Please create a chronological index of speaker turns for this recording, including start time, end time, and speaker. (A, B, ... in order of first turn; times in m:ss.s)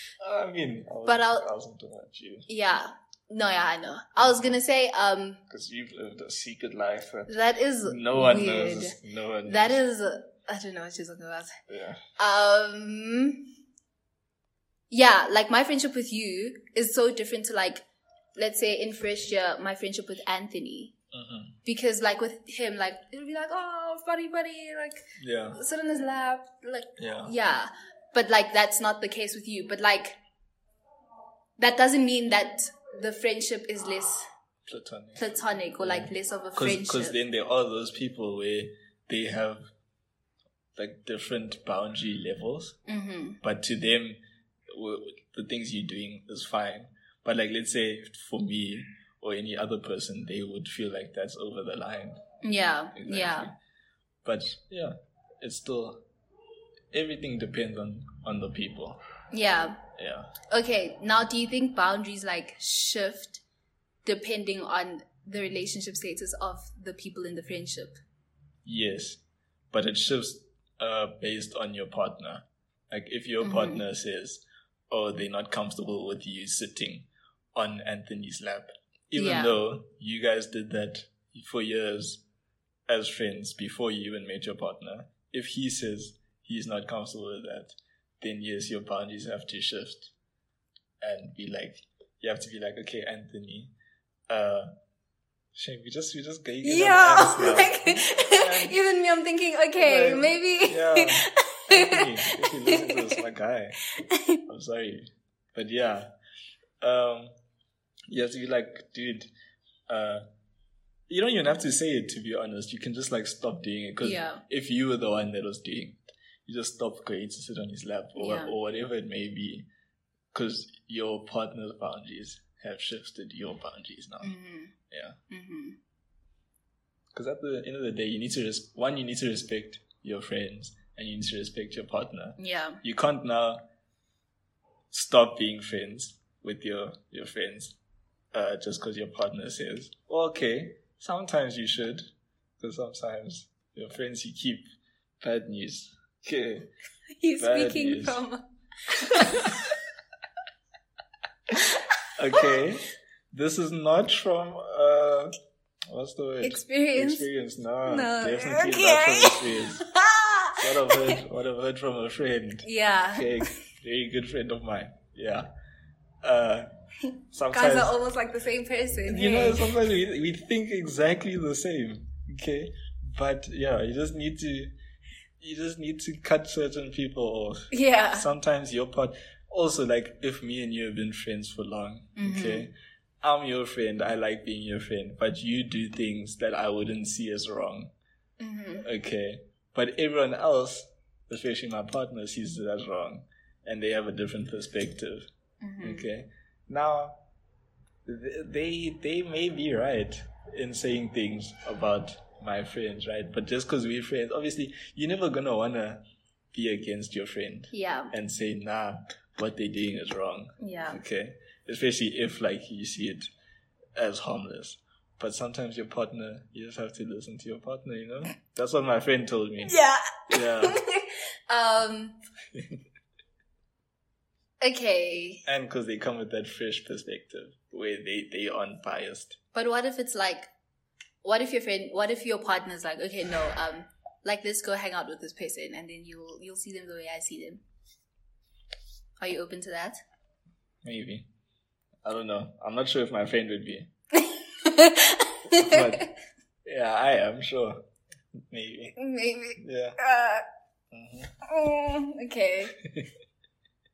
0:00.2-0:02.5 A
0:01.1-0:01.5 B
0:02.5-0:05.4 B
0:04.2-0:04.5 A
0:05.5-0:09.8 A
0:07.3-0:11.6 B
0:11.7-0:12.0 A
0:12.2-0:13.5 B
0:14.9-0:20.9 B
0:21.1-0:21.6 A
0:21.6-0:30.2 B
0:25.2-0:25.6 A
0:27.0-0:27.3 A
0:31.6-0:34.3 B
0:34.7-0:35.3 A
0:35.2-0:37.2 B
0:35.8-0:39.7 A
0:40.8-0:42.8 A
0:42.9-0:43.4 B
0:43.4-0:52.2 A
0:52.4-0:53.5 B
0:53.0-0:53.6 A
0:54.2-0:56.0 A
0:56.9-0:59.0 A
0:59.3-0:59.8 B
1:00.0-1:00.3 A
1:00.5-1:03.4 B
1:04.0-1:08.0 B
1:08.6-1:22.2 A
1:13.4-1:13.8 B
1:19.2-1:19.6 B
1:22.9-1:30.1 A
1:31.0-1:33.7 A
1:34.3-1:34.7 A
1:35.6-1:38.8 A
1:36.6-1:43.2 B
1:39.8-1:43.8 A
1:44.0-1:44.4 B
1:44.5-1:46.1 A
1:46.8-1:47.4 A
1:48.1-1:49.3 A
1:49.9-1:50.2 A
1:51.1-1:59.7 A
1:54.0-1:54.4 B
1:58.2-1:58.6 B
2:00.3-2:04.3 A
2:04.2-2:04.8 B
2:04.9-2:05.2 A
2:05.3-2:05.8 B
2:07.1-2:13.6 A
2:12.4-2:12.8 B
2:14.9-2:17.8 A
2:18.3-2:22.1 A
2:22.6-2:24.7 A
2:25.2-2:26.7 A
2:27.2-2:29.6 B
2:27.4-2:28.2 A
2:29.1-2:29.6 A
2:31.5-2:31.8 B
2:32.2-2:35.4 A
2:35.9-2:39.9 A
2:36.4-2:37.3 B
2:37.9-2:41.2 B
2:40.6-2:45.5 A
2:42.6-2:43.5 B
2:46.2-2:46.7 A
2:47.3-2:48.0 A
2:47.5-2:49.7 B
2:49.1-2:54.7 A
2:55.4-3:07.9 A
2:57.7-2:58.3 B
3:02.2-3:02.7 B
3:08.4-3:08.9 B
3:08.8-3:15.3 A
3:15.6-3:16.1 B
3:15.8-3:17.2 A
3:18.1-3:26.0 A
3:26.5-3:33.3 A
3:27.7-3:28.1 B
3:30.6-3:31.0 B
3:34.0-3:40.8 A
3:39.6-3:42.2 B
3:44.6-3:45.4 B
3:45.4-3:49.4 A
3:49.5-3:50.5 B
3:51.2-3:57.6 B
3:59.2-4:00.0 B
4:00.8-4:01.3 A
4:02.0-4:03.9 A
4:04.1-4:06.0 B
4:05.5-4:06.1 A
4:06.6-4:07.8 A
4:08.5-4:09.0 A
4:09.0-4:10.5 B
4:09.6-4:10.0 A
4:10.9-4:11.3 A
4:11.4-4:12.8 B
4:12.8-4:13.1 A